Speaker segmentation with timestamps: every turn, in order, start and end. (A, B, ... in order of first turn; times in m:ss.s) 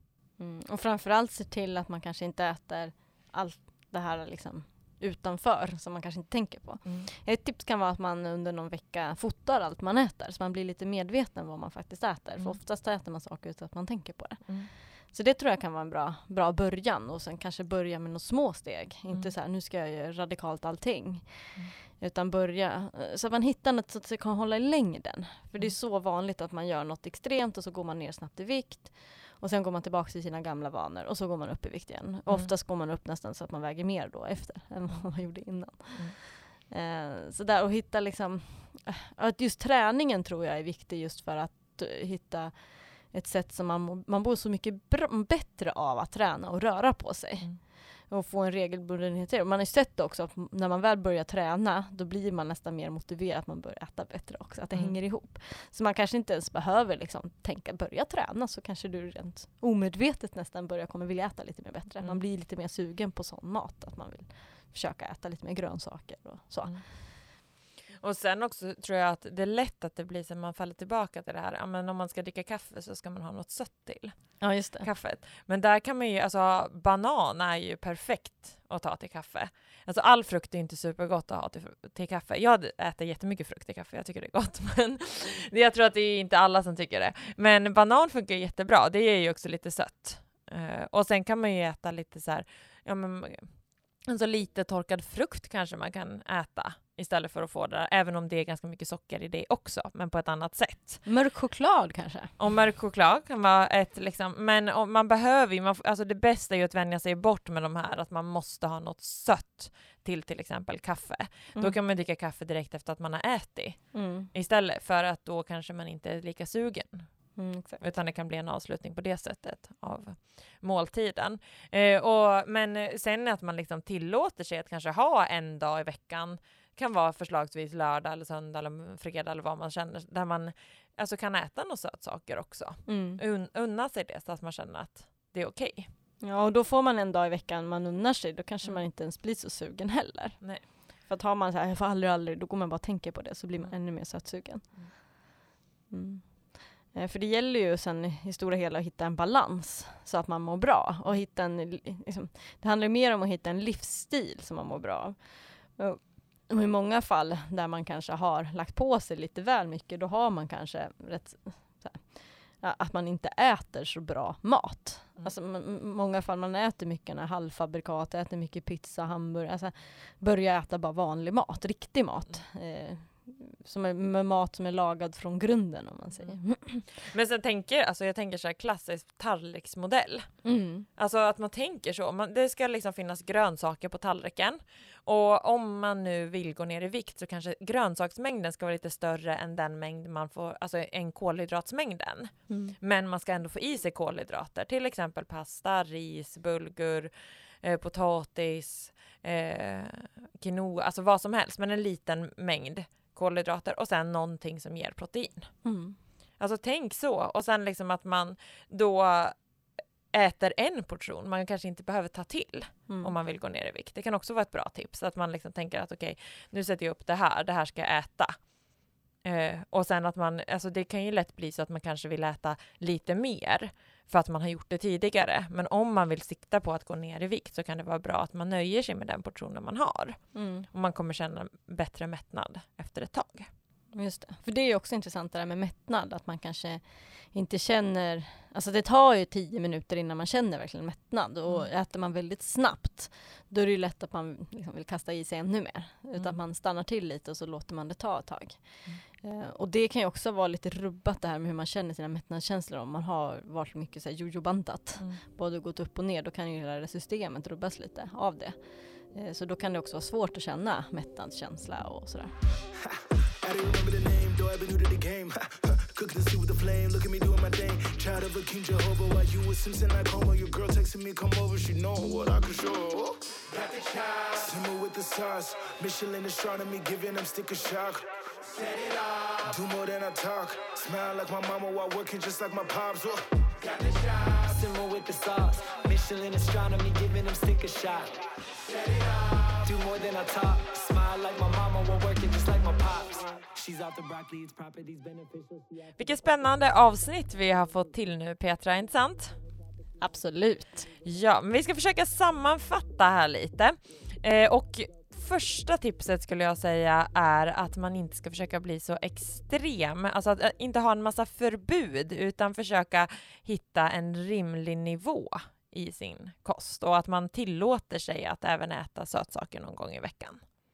0:00.4-1:06.8 A
0:54.7-0:55.0 B
1:08.0-1:33.5 B
1:14.4-1:14.9 A
1:34.0-1:41.0 B
1:41.0-1:42.3 A
1:42.4-1:57.1 B
1:53.9-1:54.3 A
1:57.4-1:57.8 A
1:57.8-2:15.9 B
2:12.8-2:13.2 A
2:16.2-2:25.1 A
2:20.4-2:20.6 B
2:25.9-2:56.9 A
2:56.2-3:00.4 B
3:00.4-3:00.9 A
3:01.0-3:17.1 B
3:12.5-3:12.7 A
3:17.6-3:25.5 B
3:25.6-3:26.0 A
3:26.4-3:29.4 B
3:30.1-3:38.4 B
3:32.9-3:33.1 A
3:39.2-3:53.5 B
3:50.3-3:50.7 A
3:53.9-4:18.6 A
4:19.1-4:22.3 A
4:22.8-4:38.2 C
4:38.6-4:39.1 D
4:39.4-4:43.2 C
4:43.6-4:55.8 D
4:56.0-4:59.4 B
5:00.0-5:00.9 A
5:01.0-5:20.4 B